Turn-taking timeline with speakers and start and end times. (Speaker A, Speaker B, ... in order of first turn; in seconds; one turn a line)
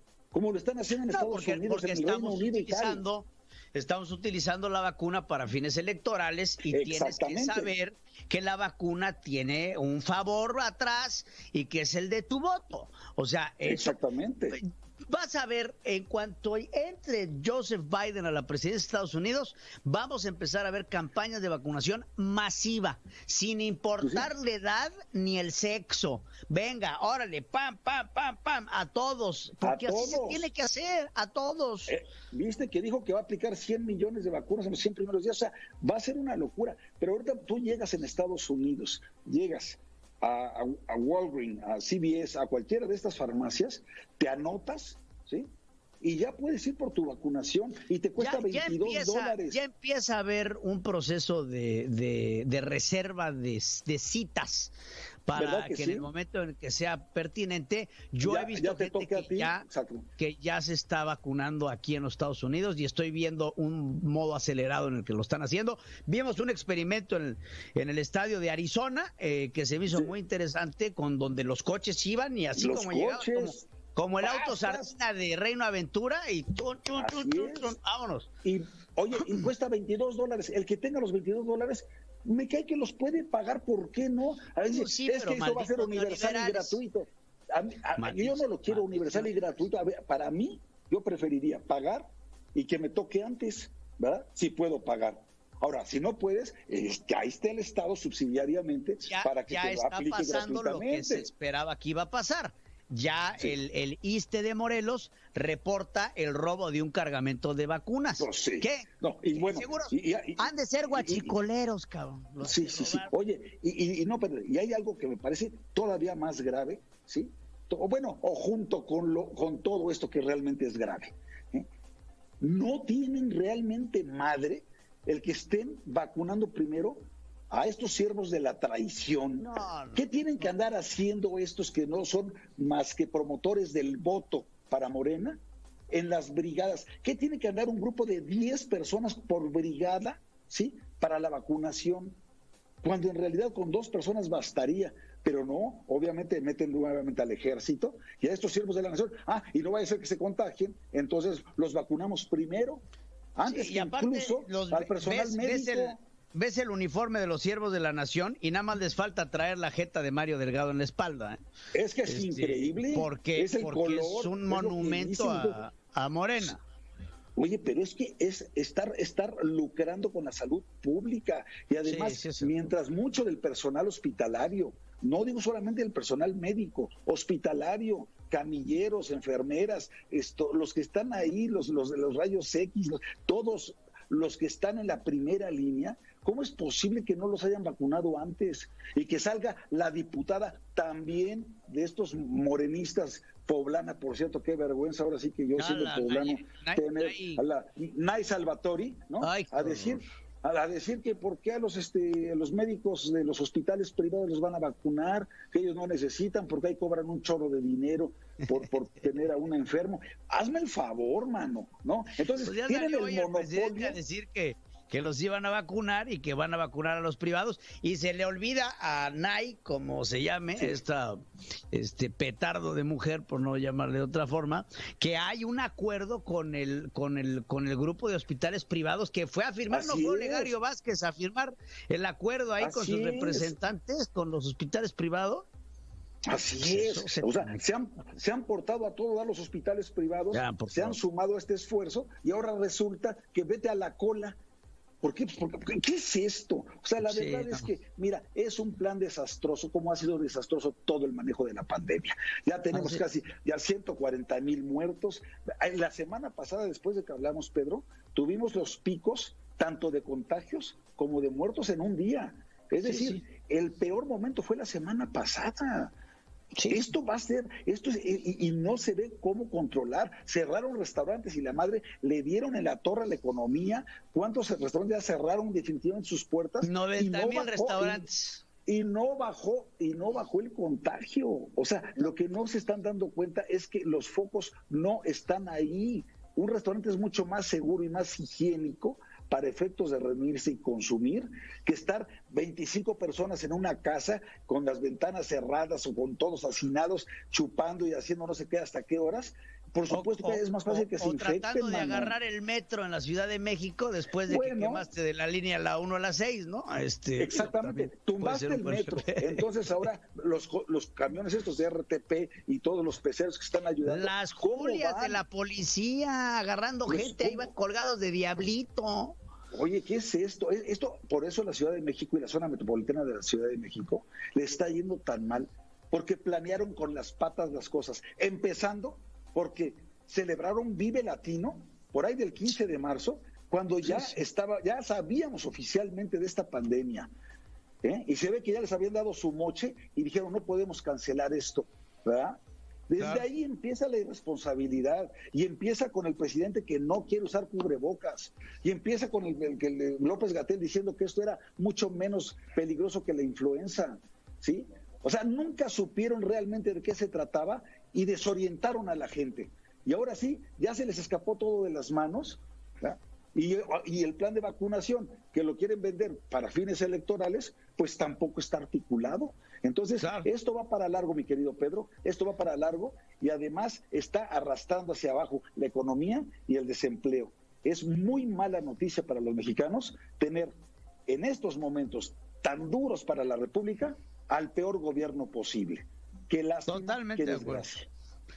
Speaker A: 0.3-3.0
Speaker B: 1.1-14.0
Speaker A: 6.7-7.7
Speaker A: 13.6-14.6
Speaker B: 14.5-31.9
Speaker A: 24.0-24.3
Speaker A: 29.6-30.5
Speaker A: 31.9-45.5
Speaker A: 46.0-49.6
Speaker B: 48.2-54.7
Speaker B: 55.3-59.6
Speaker A: 55.3-56.1
Speaker A: 58.2-60.1
Speaker B: 60.2-78.3
Speaker A: 72.6-73.7
Speaker A: 74.2-74.9
Speaker A: 77.0-77.7
Speaker A: 78.4-101.3
Speaker B: 84.7-86.8
Speaker B: 88.0-89.3
Speaker B: 99.0-113.1
Speaker A: 108.2-111.4
Speaker A: 112.4-121.7
Speaker A: 122.4-135.4
Speaker B: 129.4-130.7
Speaker A: 135.9-142.2
Speaker A: 142.8-152.8
Speaker A: 153.4-156.0
Speaker B: 153.5-161.4
Speaker A: 161.7-165.6
Speaker B: 162.1-166.6
Speaker A: 167.4-214.0
Speaker B: 171.8-172.7
Speaker B: 195.6-197.4
Speaker B: 199.2-200.0
Speaker B: 212.4-221.2
Speaker B: 221.7-235.5
Speaker A: 229.7-230.5
Speaker A: 232.6-233.5
Speaker A: 236.3-244.4
Speaker B: 236.6-237.6
Speaker B: 240.3-241.0
Speaker A: 245.0-265.9
Speaker B: 247.0-247.7
Speaker B: 252.7-253.0
Speaker B: 262.8-263.2
Speaker B: 266.6-266.9
Speaker A: 266.7-278.1
Speaker B: 276.6-278.4
Speaker A: 278.7-302.2
Speaker B: 299.9-309.4
Speaker A: 304.3-304.9
Speaker A: 307.2-315.2
Speaker B: 313.9-319.2
Speaker A: 316.9-317.5
Speaker A: 319.5-337.1
Speaker B: 333.9-334.2
Speaker A: 337.8-380.5
Speaker B: 343.0-343.3
Speaker B: 370.0-370.3
Speaker A: 381.1-387.9
Speaker B: 386.7-387.7